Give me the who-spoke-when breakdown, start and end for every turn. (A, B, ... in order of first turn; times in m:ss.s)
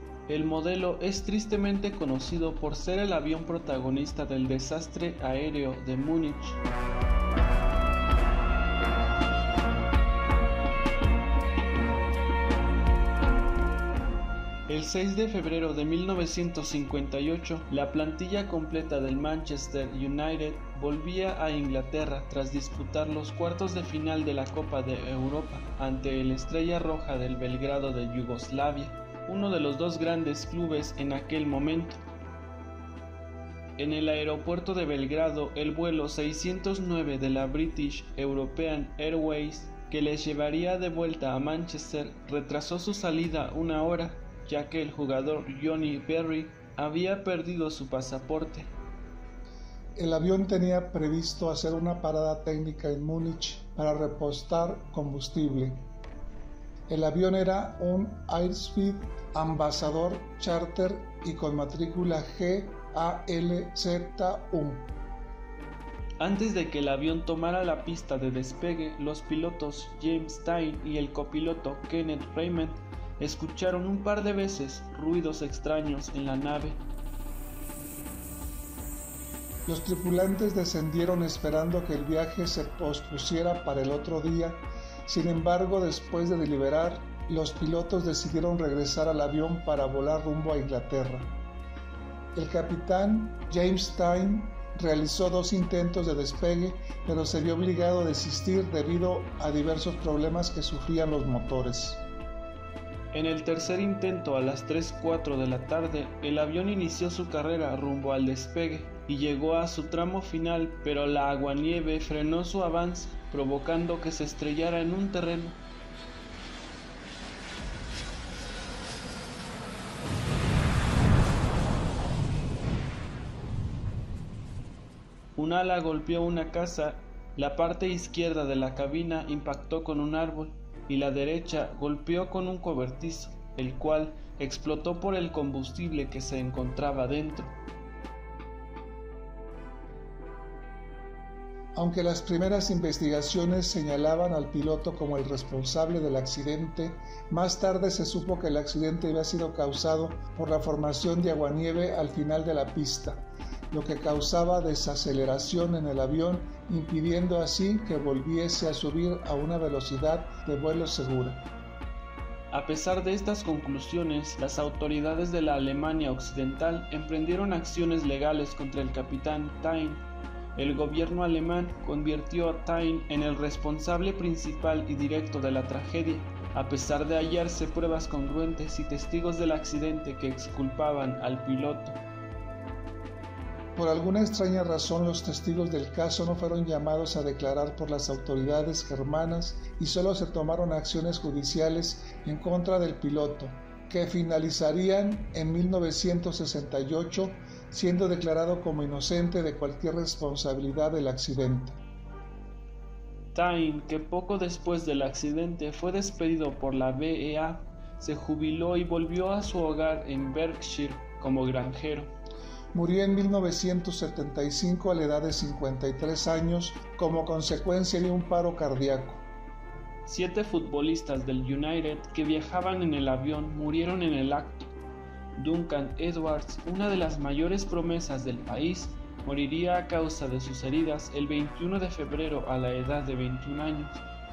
0:00.3-0:06.6 A
0:14.7-0:32.0 A
0:33.8-0:48.7 A
0:50.0-0:55.8 B
0:56.9-1:04.9 B
1:06.2-1:16.8 A
1:19.7-1:31.3 B
1:32.3-1:42.0 B
1:43.1-1:55.6 A
2:05.4-2:17.6 A
2:21.8-2:41.4 B
2:42.5-2:50.0 A
2:50.6-3:02.0 A
3:03.8-3:21.8 B
3:23.3-3:32.1 A
3:32.7-3:39.2 B
3:40.1-3:44.7 A
3:45.4-3:54.0 A